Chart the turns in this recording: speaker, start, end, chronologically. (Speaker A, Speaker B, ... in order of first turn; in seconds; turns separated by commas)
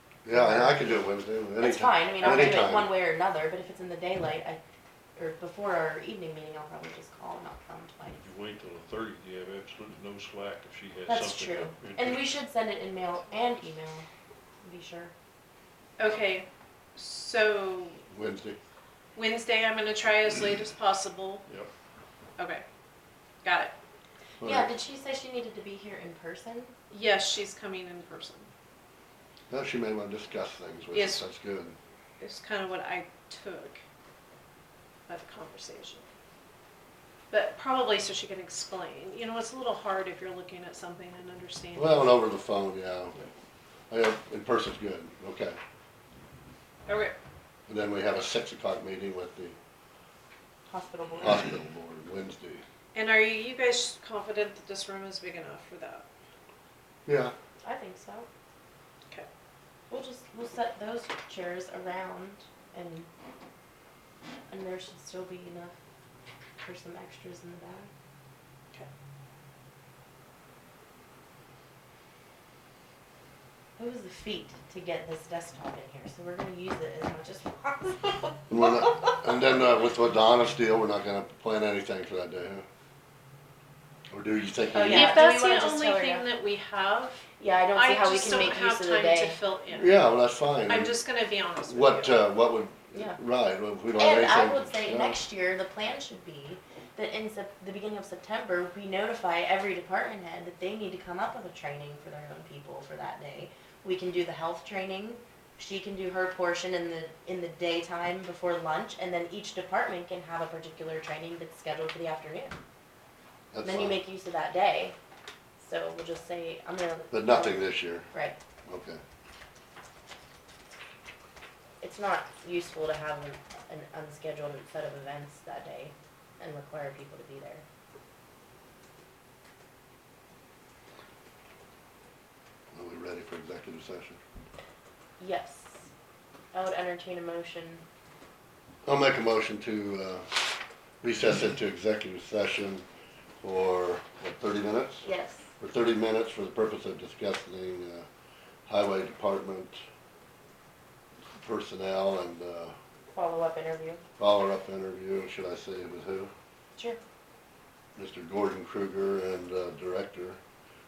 Speaker A: 0.2-2.9, Speaker B: 0.3-1.0, Speaker B: 1.6-4.6, Speaker B: 5.2-8.2, Speaker C: 8.2-12.3, Speaker B: 11.1-14.1, Speaker B: 14.6-15.1, Speaker D: 16.0-18.0, Speaker A: 18.1-18.6, Speaker D: 19.1-21.4, Speaker D: 22.4-22.6, Speaker D: 23.4-23.7, Speaker A: 24.4-24.7, Speaker B: 24.4-26.7, Speaker D: 26.9-28.5, Speaker A: 29.5-31.7, Speaker D: 30.9-31.2, Speaker D: 32.2-33.8, Speaker D: 35.1-36.0, Speaker D: 37.3-42.2, Speaker A: 41.7-43.2, Speaker A: 43.9-45.6, Speaker D: 46.9-47.1, Speaker A: 47.7-49.5, Speaker B: 50.7-51.4, Speaker A: 51.2-52.6, Speaker D: 52.9-56.1, Speaker A: 57.0-57.3, Speaker B: 57.6-58.3, Speaker B: 59.9-63.1, Speaker B: 64.5-65.8, Speaker B: 66.6-67.9, Speaker B: 73.8-79.2, Speaker A: 78.5-82.6, Speaker A: 84.1-85.2, Speaker B: 84.7-86.2, Speaker D: 84.9-89.9, Speaker B: 87.4-89.4, Speaker A: 89.7-91.0, Speaker D: 90.7-92.3, Speaker A: 91.7-95.2, Speaker B: 93.9-112.5, Speaker A: 113.5-114.0, Speaker B: 113.6-115.0, Speaker B: 115.6-118.3, Speaker A: 117.1-118.0, Speaker A: 118.7-119.0, Speaker B: 121.8-127.6, Speaker A: 132.7-134.2, Speaker B: 135.2-135.9, Speaker B: 136.5-137.8, Speaker A: 138.8-140.5, Speaker A: 141.0-142.8, Speaker A: 143.4-145.1, Speaker B: 145.0-145.5, Speaker A: 145.6-148.1, Speaker A: 148.7-149.8, Speaker A: 151.4-152.7, Speaker B: 153.1-154.0, Speaker A: 154.2-156.3, Speaker A: 157.9-160.4